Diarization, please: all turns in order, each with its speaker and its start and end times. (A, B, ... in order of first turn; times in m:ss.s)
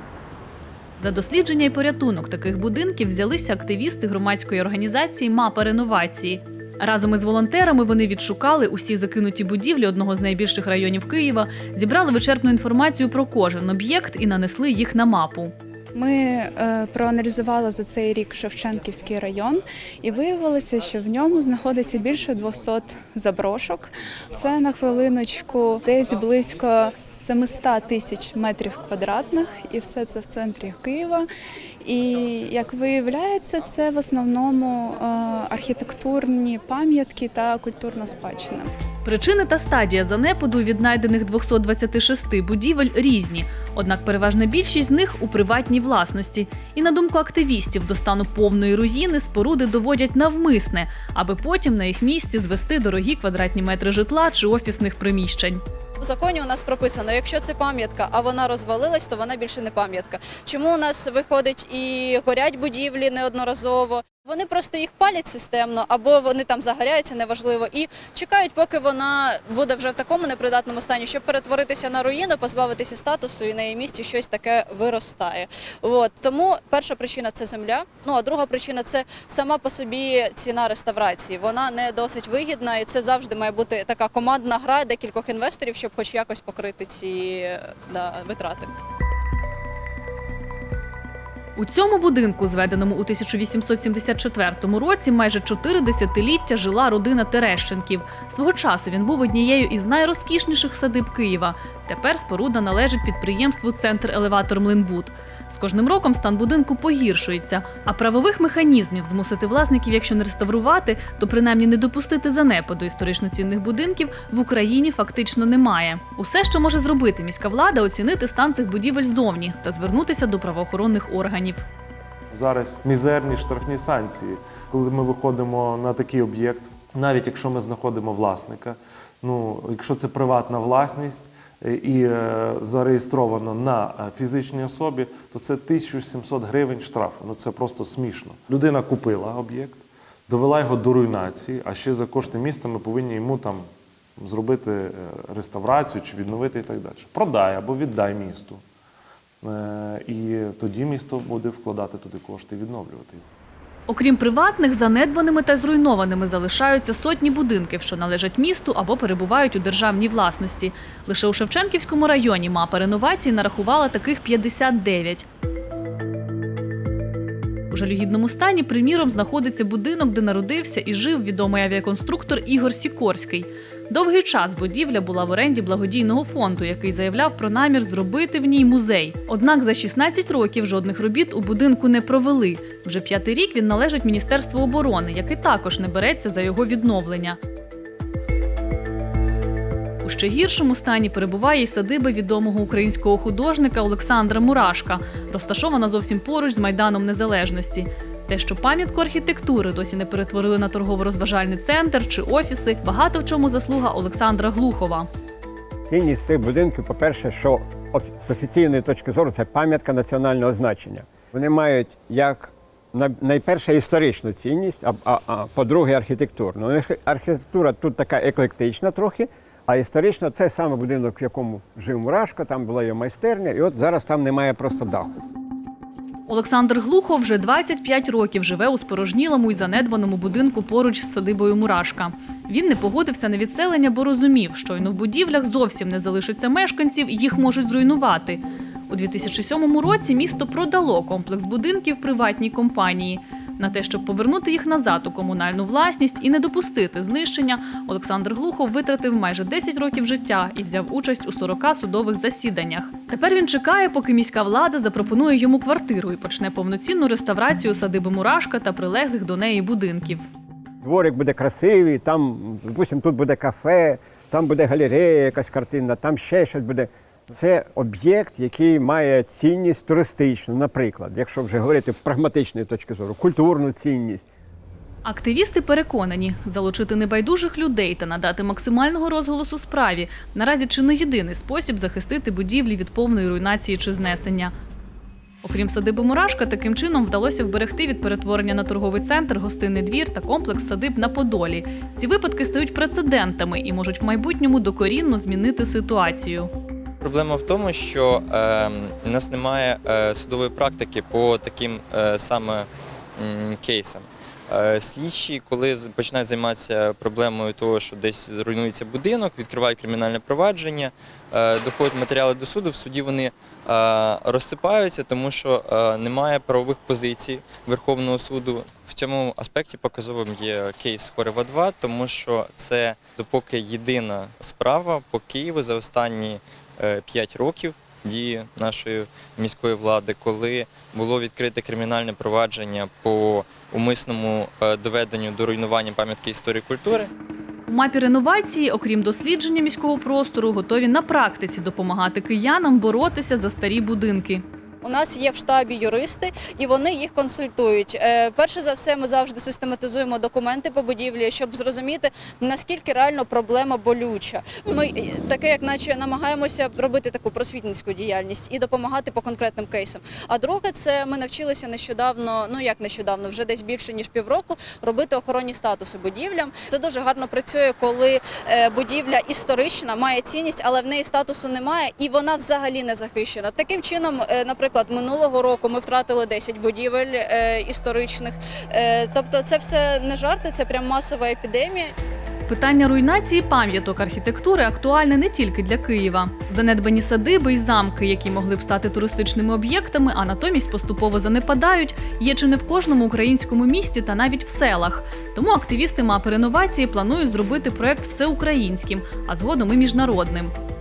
0:01.0-0:15.5 A
0:15.9-0:31.2 B
0:31.8-0:38.7 B
0:39.0-0:55.6 A
0:56.0-1:28.7 C
1:31.6-2:01.6 A
2:02.3-2:23.6 D
2:24.2-2:28.6 D
2:29.4-2:33.2 D
2:33.9-2:45.2 A
2:47.7-3:07.4 A
3:10.0-3:25.1 A
3:25.8-3:45.2 E
3:46.3-4:20.2 A
4:20.8-4:34.2 E
4:35.0-4:44.5 A
4:45.4-4:56.5 A
4:57.0-5:37.1 F
5:37.7-5:44.4 A
5:44.8-6:21.9 C
6:22.5-6:40.5 A